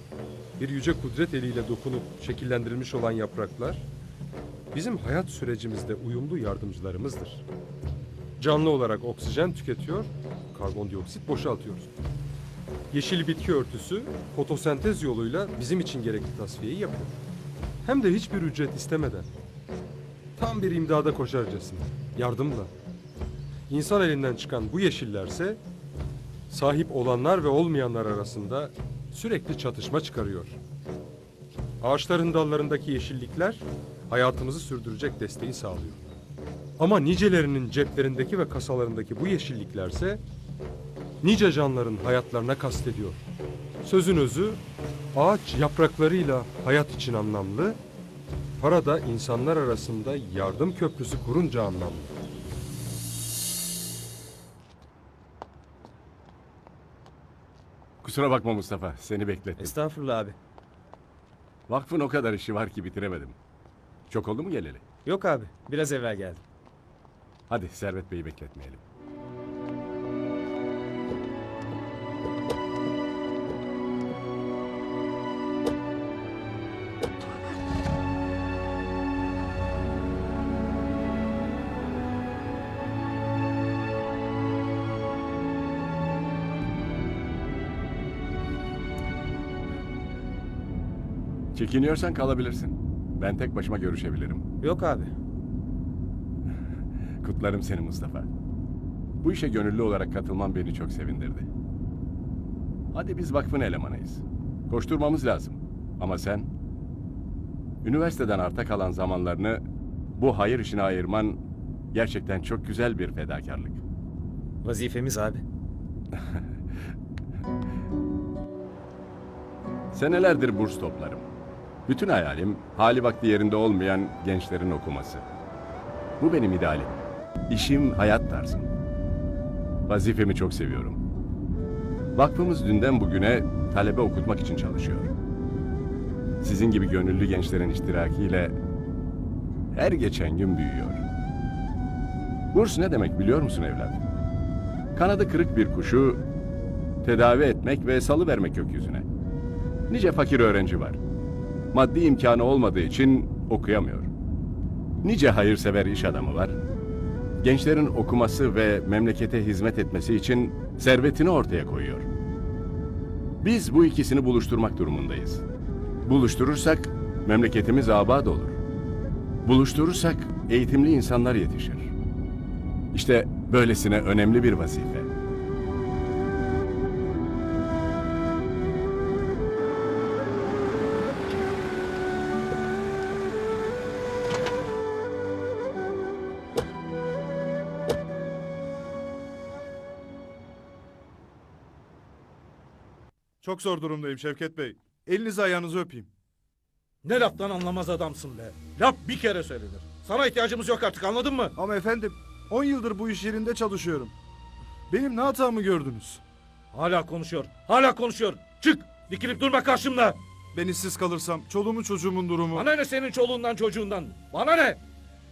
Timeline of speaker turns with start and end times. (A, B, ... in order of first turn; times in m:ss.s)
0:00.6-0:03.9 A
0:04.7-0:07.4 A
0:08.4-0:11.9 A
0:12.9-0:17.2 A
0:17.8-0:19.3 A
0:20.4-0:22.7 A
0:23.7-0:25.6 A
0:26.5-0:30.6 A
0:31.8-0:36.0 A
0:36.8-0:40.2 A
0:41.2-0:43.2 A
0:43.8-0:44.6 A
0:45.1-0:47.8 A
0:48.6-0:52.1 A
0:58.0-0:59.7 B
0:59.6-1:00.4 C
1:01.7-1:03.4 B
1:04.1-1:04.8 B
1:05.0-1:06.4 C
1:07.5-1:08.8 B
1:31.5-1:34.4 B
1:34.6-1:35.1 C
1:37.2-1:38.3 B
1:39.2-1:41.5 B
1:42.9-1:46.5 B
1:47.8-1:49.6 B
1:50.1-1:51.4 B
1:51.9-1:53.8 B
1:54.6-1:55.4 C
1:59.9-2:01.3 B
2:01.9-2:05.2 B
2:06.2-2:08.7 B
2:09.9-2:11.0 B
2:12.1-2:15.1 B
2:16.4-2:18.6 B
2:19.7-2:21.0 B
2:22.5-2:24.0 B
2:24.9-2:26.2 B
2:27.0-2:29.0 B
2:29.9-2:31.0 B
2:31.7-2:34.1 B
2:35.0-2:36.6 B
2:37.4-2:42.1 B
2:43.4-2:45.4 B
2:46.0-2:48.6 B
2:49.4-2:51.9 B
2:52.9-2:55.1 B
3:13.4-3:16.1 D
3:17.0-3:21.5 E
3:21.6-3:24.1 D
3:24.9-3:26.2 D
3:26.7-3:30.2 E
3:30.5-3:32.7 D
3:32.5-3:34.8 E